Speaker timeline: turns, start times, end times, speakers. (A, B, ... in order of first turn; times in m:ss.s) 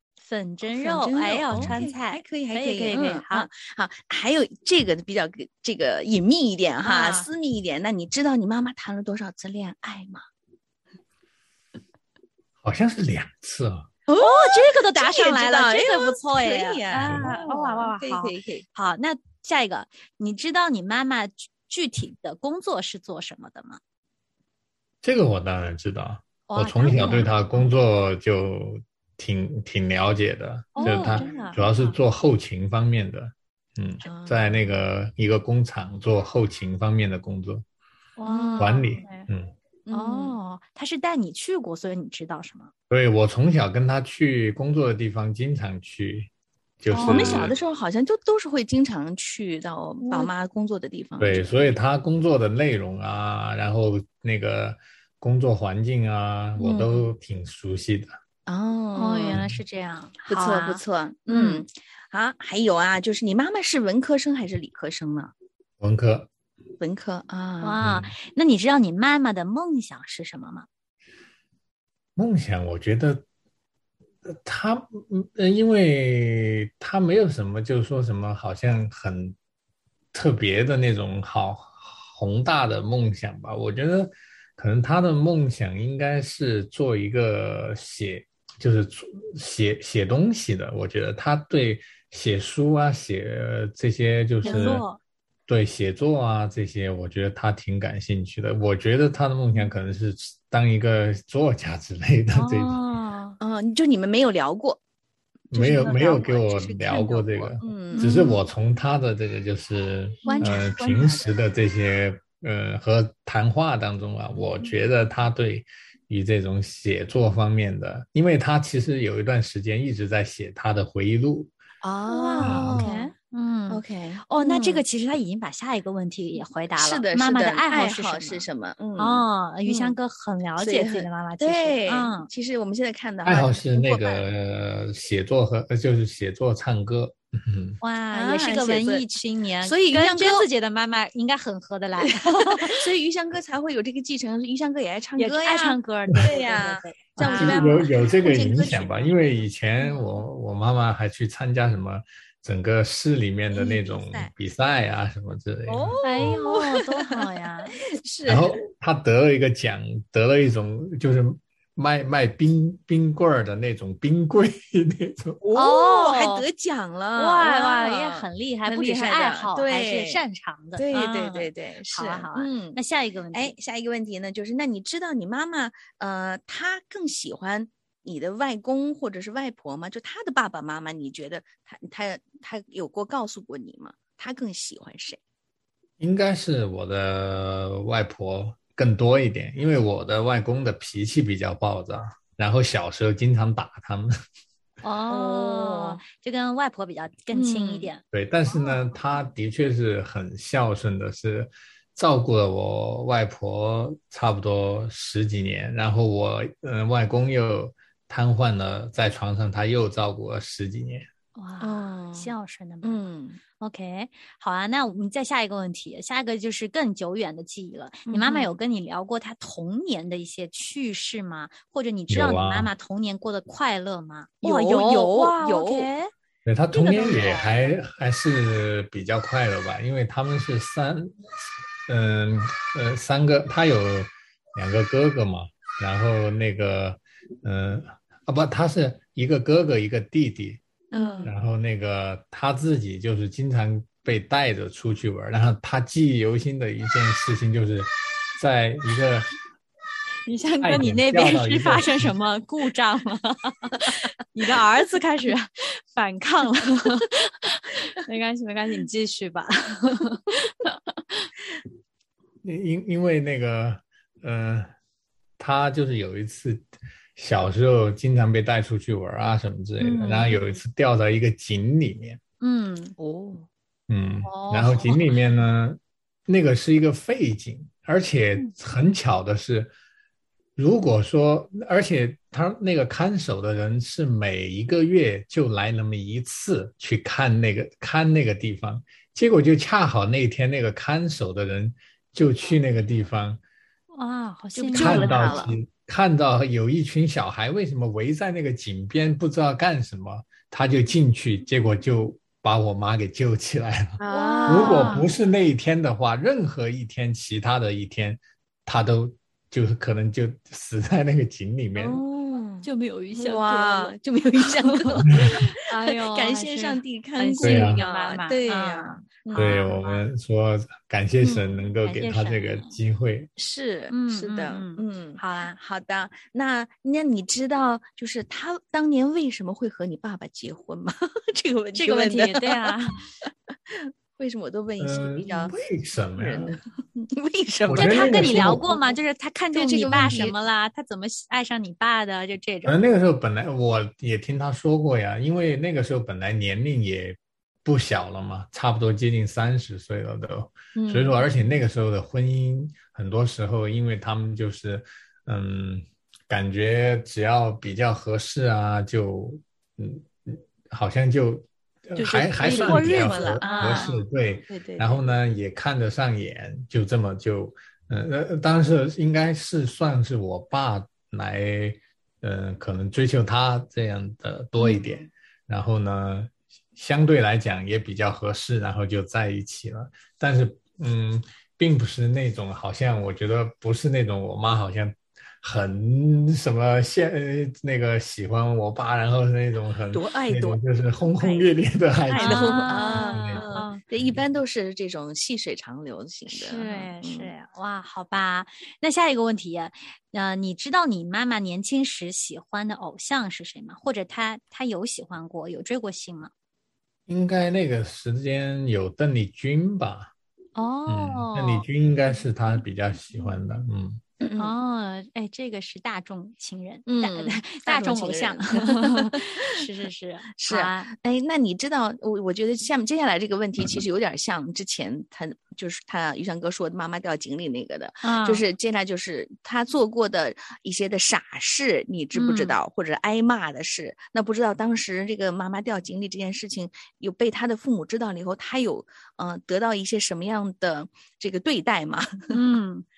0:00.2-0:03.5 A
0:00.6-0:10.3 B
0:06.8-0:07.3 A
0:12.6-0:13.9 C
0:14.1-0:18.7 B
0:14.2-0:23.8 A
0:25.0-0:37.6 C
0:26.5-0:27.3 A
0:26.9-0:27.3 B
0:30.8-0:32.0 A
0:30.8-0:31.5 B
0:34.0-0:34.8 B
0:38.2-0:39.3 A
0:38.2-0:39.0 B
0:38.6-0:39.5 C
0:39.9-0:40.4 B
0:39.9-0:42.7 A
0:42.9-0:47.6 C
0:46.9-0:47.5 A
0:47.0-0:51.5 B
0:50.0-0:50.3 A
0:51.2-0:58.2 C
0:56.6-0:57.1 B
0:58.5-0:59.4 B
0:59.0-1:01.6 A
1:00.3-1:05.3 B
1:05.8-1:06.3 C
1:06.8-1:07.8 B
1:07.6-1:10.7 A
1:07.8-1:08.1 C
1:12.2-1:13.2 C
1:14.2-1:19.4 C
1:20.1-1:34.8 C
1:34.4-1:34.8 B
1:34.4-1:35.0 A
1:35.5-1:42.8 C
1:42.4-1:43.4 A
1:43.4-1:44.8 B
1:45.5-2:01.5 C
1:45.5-1:48.3 B
1:47.9-1:48.4 A
1:50.2-1:51.0 A
1:50.3-1:51.3 B
2:01.8-2:03.1 B
2:02.1-2:08.5 A
2:02.4-2:02.8 C
2:03.7-2:04.8 B
2:06.8-2:10.0 B
2:09.0-2:12.3 A
2:10.6-2:14.0 B
2:13.2-2:17.8 C
2:13.8-2:14.1 A
2:17.8-2:22.8 A
2:18.1-2:19.1 B
2:19.6-2:20.5 B
2:22.0-2:29.1 B
2:25.2-2:27.9 A
2:27.2-2:36.4 C
2:33.5-2:34.3 B
2:35.7-2:37.2 B
2:36.0-2:37.8 A
2:37.8-2:38.6 B
2:38.3-2:45.4 C
2:45.4-2:50.2 B
2:45.6-2:46.5 A
2:47.2-2:53.5 A
2:50.8-2:52.8 B
2:53.3-3:05.2 B
3:06.0-3:14.1 C
3:14.8-3:18.6 A
3:15.1-3:16.0 B
3:17.3-3:17.9 B
3:18.1-3:31.1 C
3:31.4-3:33.0 A
3:31.6-3:33.4 B
3:33.6-3:46.1 A
3:38.1-3:38.6 B
3:42.1-3:42.7 C
3:44.4-3:45.9 B
3:46.4-3:51.2 C
3:46.7-3:47.5 A
3:51.9-4:00.6 C
4:00.9-4:01.3 B
4:01.0-4:01.3 A
4:01.2-4:09.3 C
4:10.3-4:20.6 A
4:10.6-4:12.1 C
4:22.4-4:24.7 C
4:25.4-4:32.2 C
4:29.8-4:30.4 A
4:32.4-4:33.0 A
4:33.0-4:33.5 B
4:33.9-4:39.7 C
4:34.2-4:35.0 A
4:40.6-4:53.4 C
4:53.9-4:55.4 A
4:54.6-4:55.5 B
4:54.7-5:12.0 C
5:04.0-5:05.1 B
5:04.1-5:05.1 A
5:11.8-5:19.8 B
5:12.6-5:20.0 A
5:17.4-5:17.8 C
5:19.3-5:23.3 C
5:21.8-5:22.8 A
5:23.4-5:32.7 B
5:23.9-5:25.6 A
5:31.8-5:33.0 A
5:33.7-5:35.5 B
5:34.8-5:36.6 C
5:36.2-5:39.0 B
5:37.7-5:38.6 C
5:37.8-5:42.8 A
5:39.5-5:40.4 B
5:39.9-5:40.2 C
5:42.6-6:34.2 C
5:50.8-5:51.2 B
6:02.0-6:05.0 B
6:02.4-6:04.0 A
6:14.6-6:15.1 B
6:29.9-6:30.6 B
6:32.1-6:33.8 A
6:32.2-6:37.3 B
6:36.3-6:46.3 A
6:47.1-6:50.1 C
6:50.6-6:51.6 A
6:50.9-6:54.0 C
6:54.2-6:54.5 B
6:54.4-7:00.9 A
6:56.9-6:59.5 B
7:00.4-7:22.4 B
7:08.0-7:08.4 A
7:12.1-7:12.6 A
7:22.3-7:22.8 A